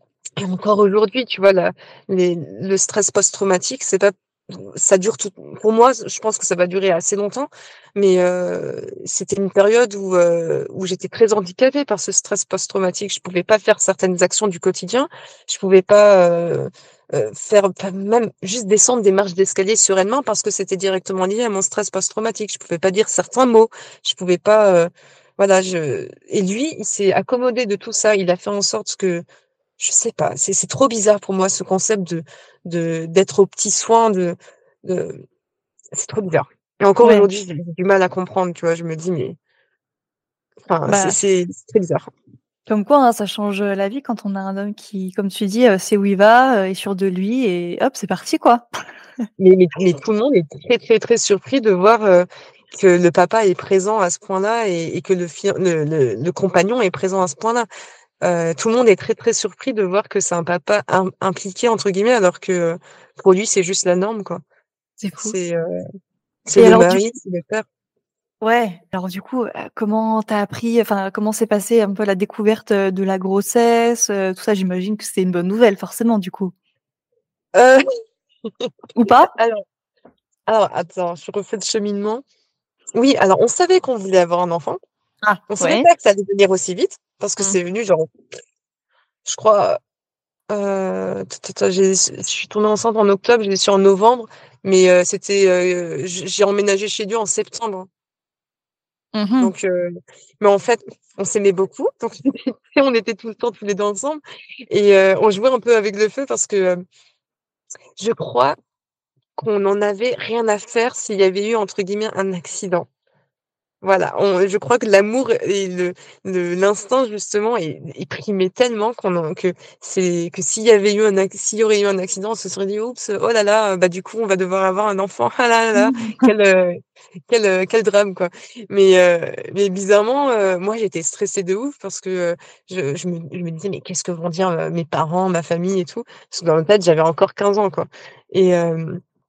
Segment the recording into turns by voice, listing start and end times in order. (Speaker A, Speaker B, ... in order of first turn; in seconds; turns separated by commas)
Speaker A: 0.4-29.2, Speaker A: 29.8-35.2, Speaker A: 35.9-39.4, Speaker B: 37.0-37.3, Speaker A: 40.7-42.1, Speaker B: 40.9-41.2, Speaker B: 42.7-48.6, Speaker A: 49.4-57.7, Speaker A: 58.2-64.4, Speaker B: 65.0-65.4, Speaker A: 65.2-65.8, Speaker A: 66.5-67.7, Speaker B: 66.6-67.0, Speaker B: 68.4-76.5, Speaker A: 77.5-77.8, Speaker B: 79.0-79.3, Speaker A: 79.3-79.6, Speaker A: 80.5-82.2, Speaker A: 82.9-84.8, Speaker B: 85.2-85.9, Speaker A: 85.5-88.1, Speaker A: 89.2-89.8, Speaker A: 90.5-97.9, Speaker B: 99.2-99.5, Speaker A: 99.4-106.8, Speaker A: 108.0-108.5, Speaker A: 109.4-112.9, Speaker A: 113.8-126.8, Speaker B: 125.7-126.3, Speaker A: 127.3-139.0